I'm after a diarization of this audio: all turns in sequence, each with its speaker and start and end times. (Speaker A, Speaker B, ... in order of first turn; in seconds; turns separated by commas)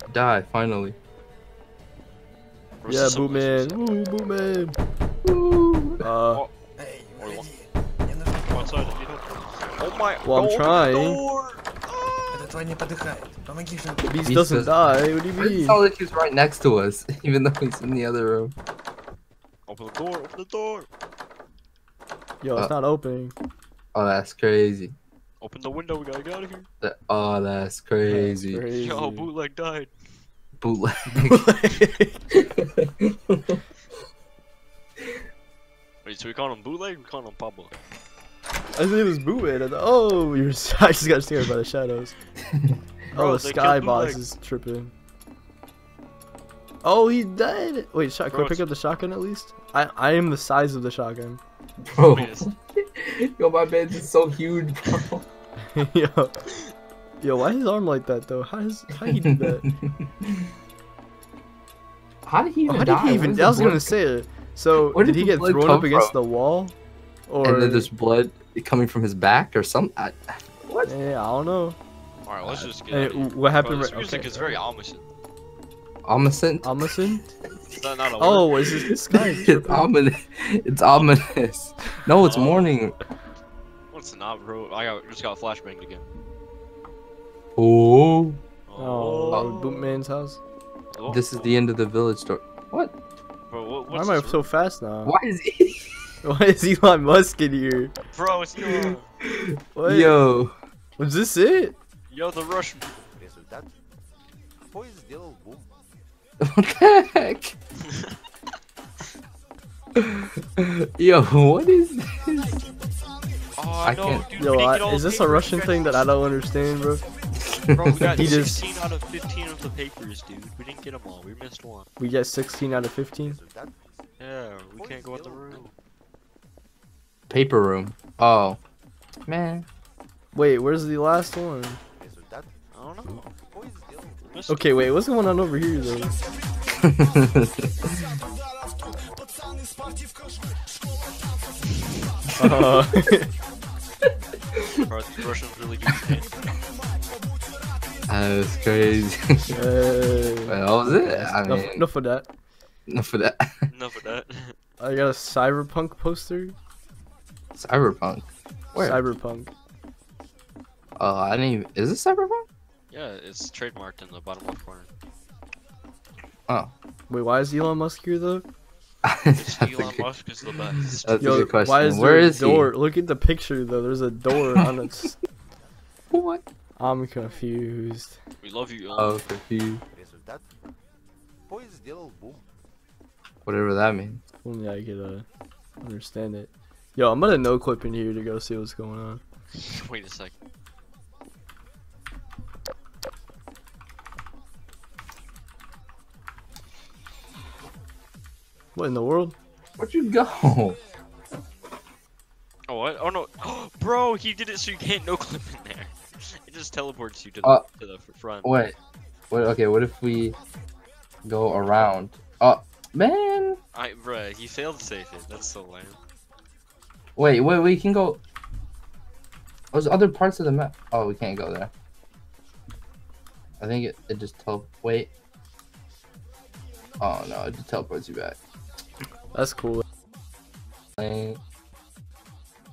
Speaker A: 0.1-1.0, Speaker B: 2.8-3.8, Speaker C: 2.9-4.8, Speaker A: 5.2-6.0, Speaker C: 6.0-6.5, Speaker D: 6.8-9.0, Speaker B: 7.2-7.5, Speaker B: 8.5-12.4, Speaker C: 10.2-11.2, Speaker D: 12.3-14.2, Speaker C: 14.1-15.8, Speaker A: 14.2-14.7, Speaker A: 15.3-18.5, Speaker B: 19.7-20.9, Speaker C: 22.4-23.3, Speaker A: 23.9-24.9, Speaker B: 25.4-26.7, Speaker A: 26.8-28.7, Speaker C: 28.1-29.3, Speaker B: 28.8-29.9, Speaker A: 30.6-31.5, Speaker C: 31.3-32.2, Speaker A: 32.3-33.6, Speaker B: 36.0-37.7, Speaker C: 38.8-42.1, Speaker A: 42.5-42.8, Speaker C: 43.1-44.9, Speaker B: 43.1-44.2, Speaker C: 46.8-51.4, Speaker B: 48.3-48.7, Speaker A: 51.8-55.2, Speaker B: 52.0-52.5, Speaker C: 55.7-56.3, Speaker C: 57.2-59.6, Speaker A: 58.9-60.5, Speaker A: 62.3-64.0, Speaker C: 62.7-66.8, Speaker A: 64.8-66.2, Speaker C: 67.3-67.9, Speaker A: 67.4-70.9, Speaker C: 70.8-71.8, Speaker B: 72.3-75.0, Speaker A: 72.4-72.7, Speaker C: 72.9-74.6, Speaker A: 76.1-77.2, Speaker C: 76.6-77.3, Speaker B: 77.7-78.7, Speaker C: 78.2-79.9, Speaker A: 79.1-83.0, Speaker B: 82.2-82.8, Speaker B: 83.9-86.0, Speaker A: 87.6-88.4, Speaker B: 88.7-90.0, Speaker C: 88.8-90.4, Speaker B: 90.9-91.5, Speaker A: 91.1-92.9, Speaker B: 93.5-94.5, Speaker C: 93.9-95.1, Speaker A: 95.0-96.1, Speaker C: 96.2-98.0, Speaker B: 98.1-99.1, Speaker A: 98.6-100.5, Speaker C: 99.8-100.2, Speaker C: 101.0-101.8, Speaker B: 102.1-102.9, Speaker A: 106.4-107.6, Speaker B: 107.9-108.2, Speaker A: 110.0-112.6, Speaker B: 113.6-116.1, Speaker A: 113.8-114.3, Speaker C: 114.4-117.0, Speaker A: 117.7-118.3, Speaker B: 117.8-121.9, Speaker C: 118.0-118.6, Speaker C: 122.0-123.4, Speaker B: 124.2-125.7, Speaker A: 127.3-128.6, Speaker A: 129.3-129.7, Speaker C: 130.3-131.8, Speaker B: 132.7-133.3, Speaker B: 134.2-134.9, Speaker C: 134.5-136.2, Speaker A: 136.8-138.1, Speaker C: 142.4-143.3, Speaker B: 144.8-146.5, Speaker A: 148.1-149.6, Speaker C: 149.5-152.3, Speaker A: 150.5-151.8, Speaker A: 152.9-153.7, Speaker B: 153.7-154.6, Speaker C: 154.8-156.6, Speaker A: 157.6-159.0, Speaker C: 158.8-159.5, Speaker A: 161.0-162.5, Speaker B: 162.9-164.9, Speaker C: 167.1-168.4, Speaker A: 169.1-170.1, Speaker B: 169.4-171.2, Speaker A: 170.8-172.7, Speaker C: 171.2-175.2, Speaker A: 176.1-176.4, Speaker C: 176.8-178.2, Speaker B: 178.4-179.2, Speaker A: 178.9-179.8, Speaker A: 183.5-184.2, Speaker C: 184.4-185.2, Speaker C: 185.8-189.2, Speaker B: 189.5-190.3, Speaker C: 198.8-199.4, Speaker A: 199.8-200.8, Speaker B: 202.7-208.5, Speaker A: 208.4-208.8, Speaker A: 209.3-210.4, Speaker A: 211.2-213.6, Speaker B: 213.7-216.0, Speaker A: 217.2-218.2, Speaker A: 219.7-221.7, Speaker A: 223.6-225.1, Speaker A: 227.0-228.4, Speaker C: 229.3-229.8, Speaker A: 231.0-231.4